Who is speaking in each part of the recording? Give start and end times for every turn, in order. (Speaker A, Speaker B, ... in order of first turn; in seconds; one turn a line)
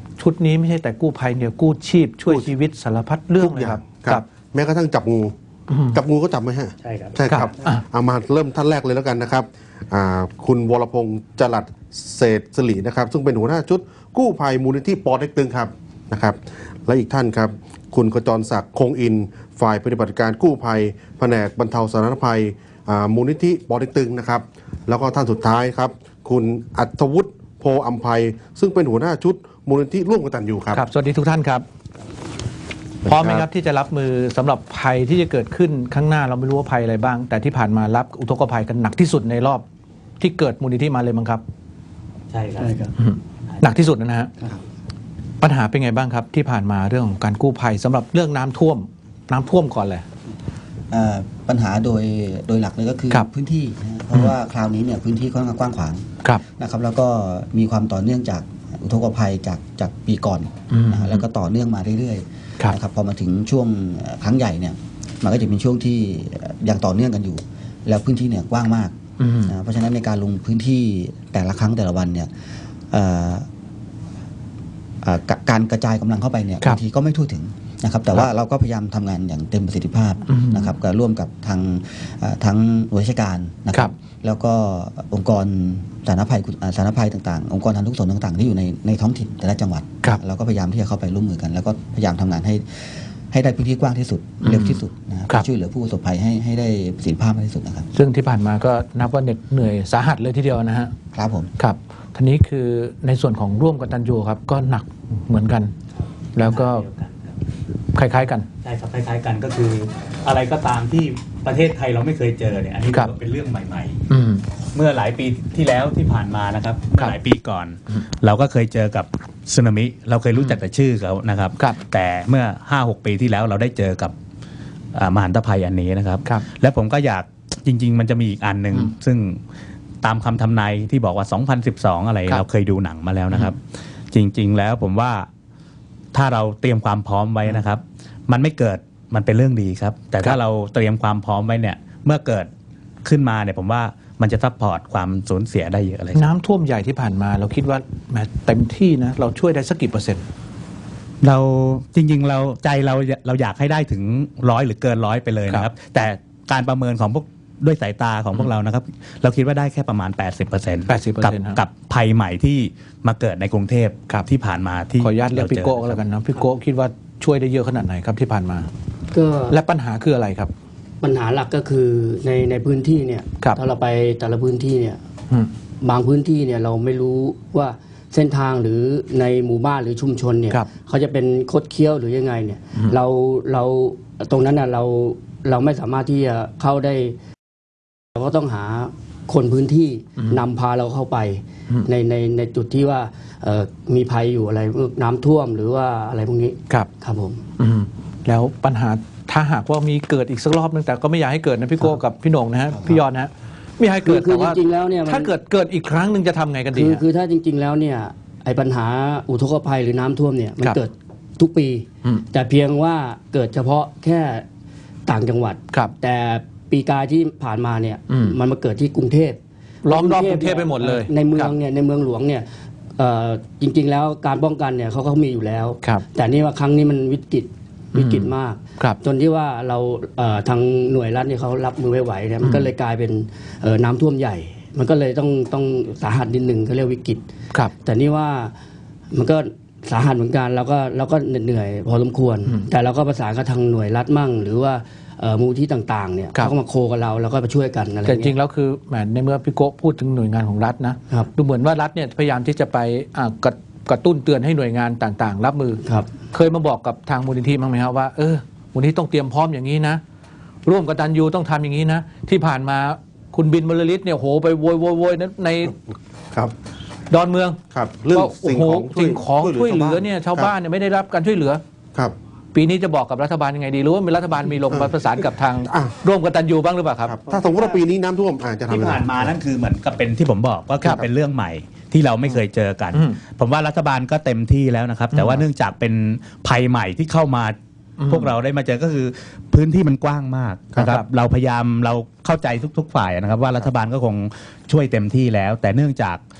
Speaker A: 0.2-4.2
Speaker B: 3.4-5.3
Speaker A: 5.7-6.0
Speaker B: 5.9-30.8
Speaker C: 6.8-7.5
Speaker A: 7.3-7.8
Speaker A: 30.7-31.6
Speaker B: 33.0-33.5
Speaker A: 33.0-39.6
Speaker A: 40.2-41.4
Speaker C: 42.3-42.9
Speaker D: 42.6-42.9
Speaker A: 43.0-44.3
Speaker A: 45.4-50.0
Speaker E: 50.9-68.9
Speaker A: 60.7-61.2
Speaker A: 69.2-69.5
Speaker E: 69.4-72.3
Speaker E: 72.9-73.5
Speaker E: 75.0-97.9
Speaker A: 80.3-80.7
Speaker A: 94.4-95.4
Speaker A: 97.9-100.9
Speaker E: 101.1-101.5
Speaker A: 101.6-105.7
Speaker A: 106.3-106.8
Speaker C: 106.4-107.3
Speaker A: 107.9-108.5
Speaker C: 108.6-114.0
Speaker A: 114.1-114.4
Speaker C: 114.7-124.1
Speaker C: 124.9-129.4
Speaker C: 130.0-133.6
Speaker C: 134.1-135.3
Speaker C: 136.1-142.5
Speaker C: 143.0-146.3
Speaker A: 146.1-150.2
Speaker C: 151.2-166.0
Speaker A: 160.8-161.6
Speaker A: 165.0-168.7
Speaker D: 169.1-169.6
Speaker A: 169.5-170.5
Speaker D: 171.0-175.0
Speaker D: 175.8-187.2
Speaker D: 188.1-197.4
Speaker A: 197.6-207.0
Speaker D: 204.0-205.3
Speaker D: 206.7-214.4
Speaker D: 215.1-237.2
Speaker A: 218.1-218.3
Speaker A: 219.8-221.5
Speaker A: 227.9-229.0
Speaker D: 237.8-238.5
Speaker D: 239.1-248.3
Speaker A: 248.0-260.0
Speaker A: 260.6-265.8
Speaker A: 267.1-267.6
Speaker B: 267.7-270.5
Speaker A: 268.1-271.6
Speaker A: 272.5-277.2
Speaker B: 274.7-275.0
Speaker B: 275.6-275.9
Speaker B: 277.0-279.3
Speaker C: 278.7-287.6
Speaker A: 280.8-281.1
Speaker A: 282.9-283.2
Speaker A: 285.1-285.4
Speaker A: 288.0-288.3
Speaker C: 288.1-296.2
Speaker A: 290.8-291.1